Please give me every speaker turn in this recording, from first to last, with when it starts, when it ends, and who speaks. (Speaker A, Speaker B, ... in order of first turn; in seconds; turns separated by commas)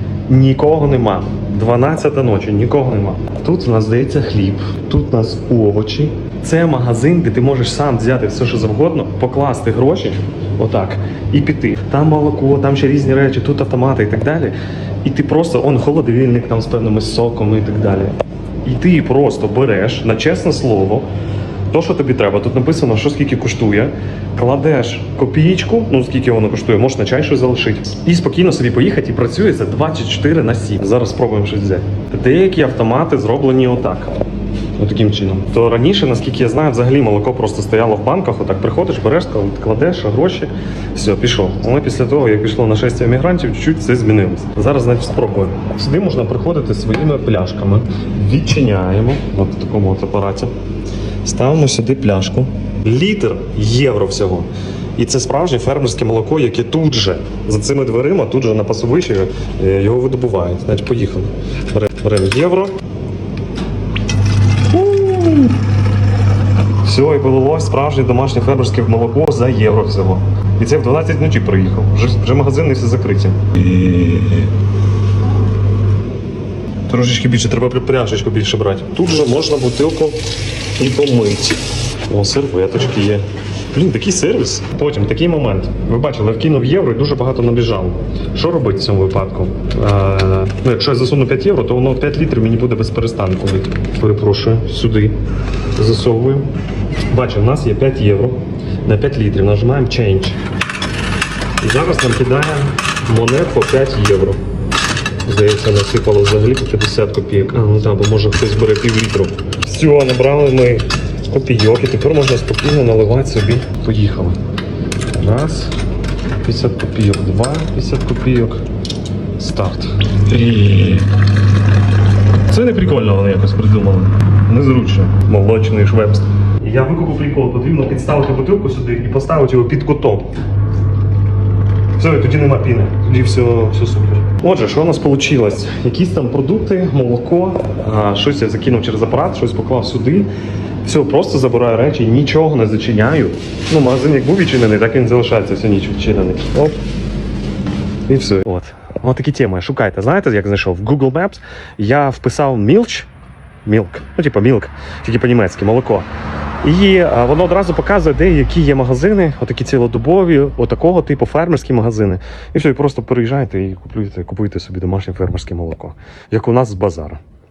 Speaker A: 0.3-14.5, Speaker A: 15.0-21.1, Speaker A: 21.7-34.1, Speaker A: 34.8-50.5, Speaker A: 51.2-62.8, Speaker A: 64.7-65.5, Speaker A: 66.8-74.5, Speaker A: 76.9-80.2, Speaker A: 80.8-95.2, Speaker A: 95.8-96.5, Speaker A: 97.1-100.4, Speaker A: 101.6-104.4, Speaker A: 105.2-114.4, Speaker A: 115.1-115.7, Speaker A: 116.4-118.6, Speaker A: 119.4-121.1, Speaker A: 122.5-130.3, Speaker A: 132.0-140.3, Speaker A: 140.8-146.8, Speaker A: 148.1-153.1, Speaker A: 153.6-156.1, Speaker A: 156.6-167.2